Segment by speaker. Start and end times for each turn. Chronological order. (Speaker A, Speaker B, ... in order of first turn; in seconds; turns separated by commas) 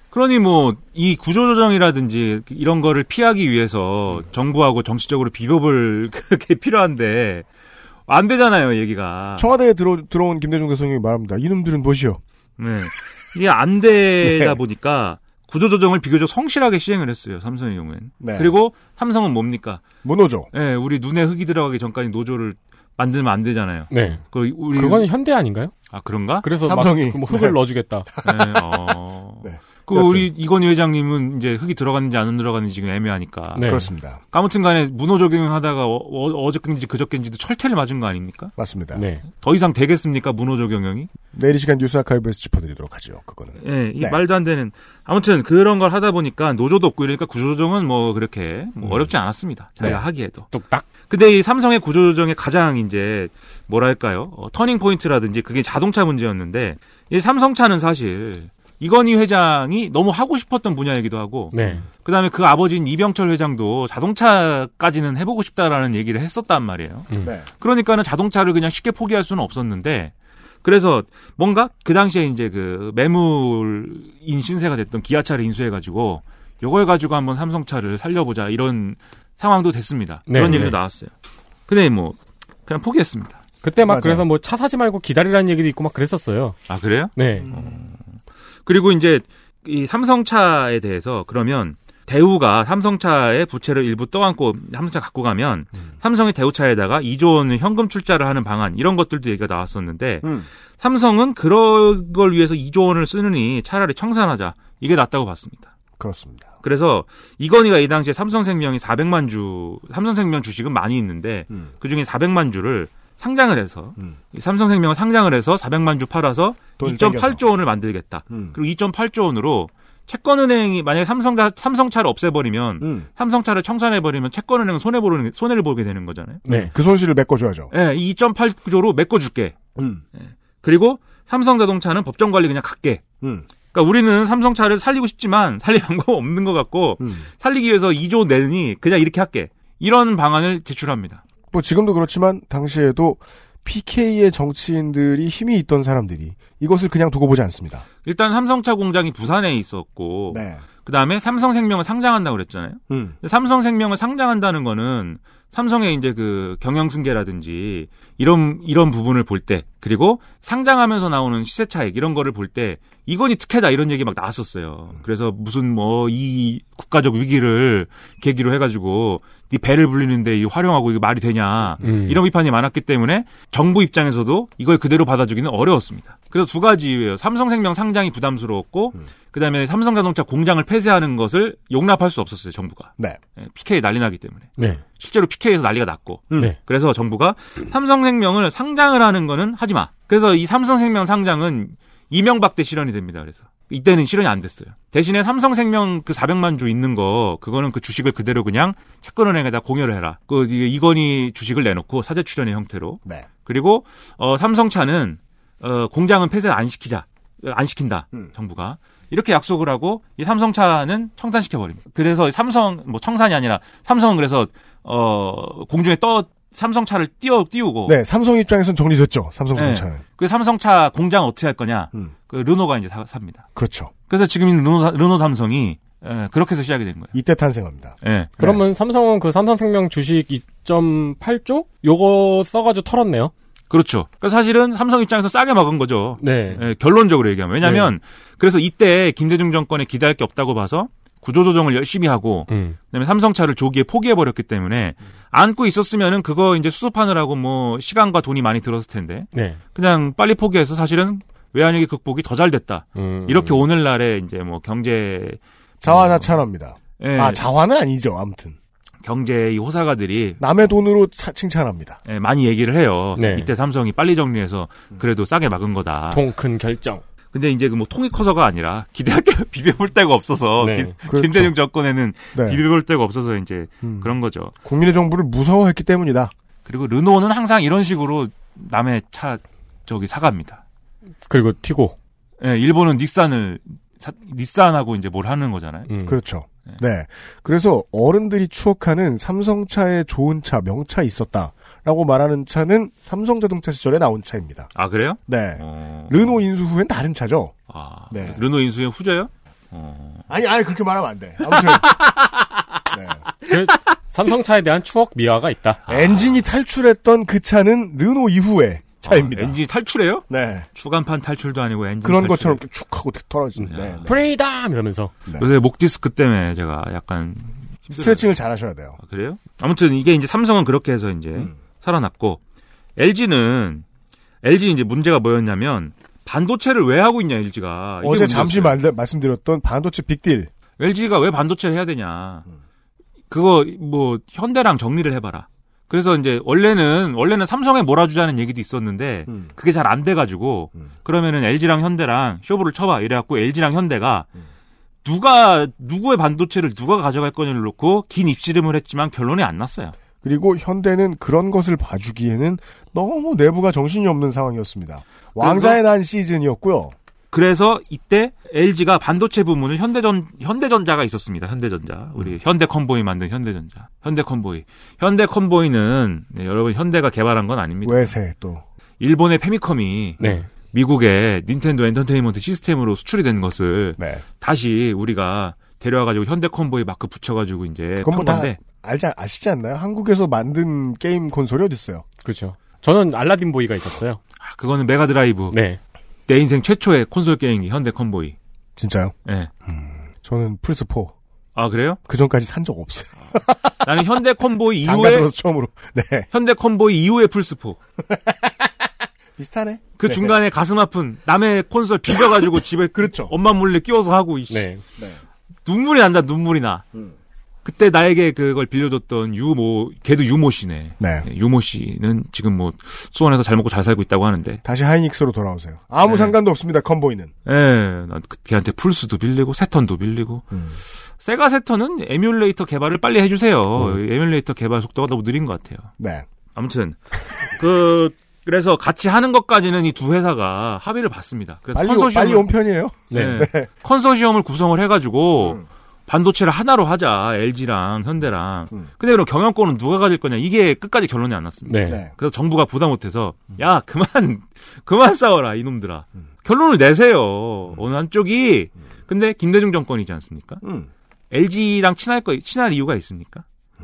Speaker A: 0.1-7.5, Speaker A: 8.1-9.5, Speaker B: 9.4-12.2, Speaker A: 12.6-19.8, Speaker B: 14.2-14.6, Speaker B: 18.2-18.5, Speaker B: 20.0-20.5, Speaker A: 20.5-25.1, Speaker C: 23.9-24.2, Speaker C: 24.7-25.7, Speaker A: 25.9-26.5, Speaker C: 26.4-28.1, Speaker B: 26.6-27.6, Speaker B: 28.1-30.2, Speaker A: 28.2-33.8, Speaker C: 33.5-33.9, Speaker B: 33.6-34.2, Speaker A: 34.3-38.5, Speaker B: 38.6-39.0, Speaker C: 38.9-39.2, Speaker A: 39.4-41.1, Speaker B: 41.3-44.2, Speaker A: 43.6-50.5, Speaker B: 48.8-49.1, Speaker C: 50.5-50.9, Speaker A: 51.1-67.1, Speaker C: 61.5-61.8, Speaker A: 67.6-70.1, Speaker A: 70.6-81.1, Speaker C: 80.3-80.8, Speaker A: 81.7-83.4, Speaker C: 83.6-86.5, Speaker B: 83.8-84.2, Speaker A: 86.7-88.0, Speaker C: 87.2-87.5, Speaker B: 87.4-87.8, Speaker A: 88.7-105.7, Speaker B: 100.2-100.5, Speaker B: 106.0-106.5, Speaker A: 106.6-126.4, Speaker B: 116.8-117.4, Speaker B: 122.8-123.1, Speaker C: 126.5-126.7, Speaker B: 126.5-127.7, Speaker A: 127.7-129.6, Speaker B: 129.8-130.0, Speaker A: 130.2-133.0, Speaker B: 133.2-133.5, Speaker A: 133.7-141.2, Speaker B: 137.0-137.2, Speaker B: 141.5-147.8, Speaker A: 148.0-218.0, Speaker B: 150.3-150.6, Speaker B: 152.9-153.1, Speaker C: 171.8-172.2, Speaker B: 217.8-220.0, Speaker A: 219.5-223.4, Speaker B: 223.6-223.9, Speaker A: 224.1-227.1, Speaker B: 227.1-228.6, Speaker A: 228.0-228.3, Speaker C: 228.4-233.3, Speaker A: 233.7-256.3, Speaker C: 236.2-236.6, Speaker C: 237.6-237.9, Speaker C: 242.5-242.8, Speaker C: 249.3-249.6, Speaker C: 252.9-253.6, Speaker B: 255.8-258.6, Speaker A: 257.0-257.4, Speaker A: 259.0-260.4, Speaker B: 260.4-262.0, Speaker A: 262.1-266.2, Speaker C: 263.1-263.5, Speaker C: 266.1-267.0, Speaker A: 267.3-274.5, Speaker C: 270.6-270.9, Speaker B: 271.1-271.5, Speaker B: 272.3-272.6, Speaker B: 273.8-274.1, Speaker B: 274.6-276.3, Speaker A: 276.6-280.6, Speaker C: 281.3-281.9, Speaker A: 282.4-285.9, Speaker C: 285.9-286.1, Speaker B: 286.1-294.7, Speaker A: 294.7-296.4, Speaker B: 295.3-297.5, Speaker A: 297.7-300.2, Speaker B: 298.1-298.4, Speaker B: 300.3-302.1, Speaker A: 301.9-302.5, Speaker B: 302.9-303.2, Speaker C: 303.5-305.8, Speaker A: 305.9-306.4, Speaker B: 305.9-309.6, Speaker A: 309.0-312.6, Speaker B: 310.3-310.7, Speaker B: 312.0-314.1, Speaker C: 313.6-315.1, Speaker A: 313.7-314.1, Speaker A: 315.4-318.3, Speaker B: 317.9-319.0, Speaker A: 319.0-322.4, Speaker A: 323.0-323.8, Speaker A: 324.4-328.8, Speaker B: 328.0-330.5, Speaker A: 330.8-332.4, Speaker A: 333.3-344.3, Speaker A: 345.0-349.9, Speaker B: 350.2-356.9, Speaker A: 355.4-355.8, Speaker A: 357.3-368.1, Speaker B: 367.8-368.6, Speaker A: 369.0-378.6, Speaker C: 370.2-370.5, Speaker B: 374.0-374.2, Speaker B: 378.0-382.0, Speaker C: 382.2-384.2, Speaker A: 384.4-385.6, Speaker C: 385.5-385.8, Speaker A: 386.3-388.4, Speaker B: 388.8-389.1, Speaker B: 389.6-391.1, Speaker A: 391.6-392.0, Speaker B: 392.1-393.7, Speaker A: 393.8-395.3, Speaker B: 394.8-396.3, Speaker A: 396.3-397.8, Speaker B: 398.0-398.7, Speaker B: 399.4-400.3, Speaker A: 400.0-404.7, Speaker B: 402.9-403.3, Speaker C: 404.5-404.8, Speaker A: 405.6-406.9, Speaker A: 407.6-414.6, Speaker B: 411.0-411.3, Speaker B: 414.6-417.3, Speaker A: 416.0-416.3, Speaker A: 417.4-420.4, Speaker B: 420.5-420.8, Speaker A: 421.2-425.9, Speaker B: 426.0-426.2, Speaker A: 426.5-432.5, Speaker B: 431.7-433.7, Speaker C: 433.1-433.4, Speaker A: 433.1-450.6, Speaker B: 435.4-435.6, Speaker C: 441.6-442.0, Speaker B: 441.9-442.1, Speaker B: 450.6-450.9, Speaker A: 451.3-453.4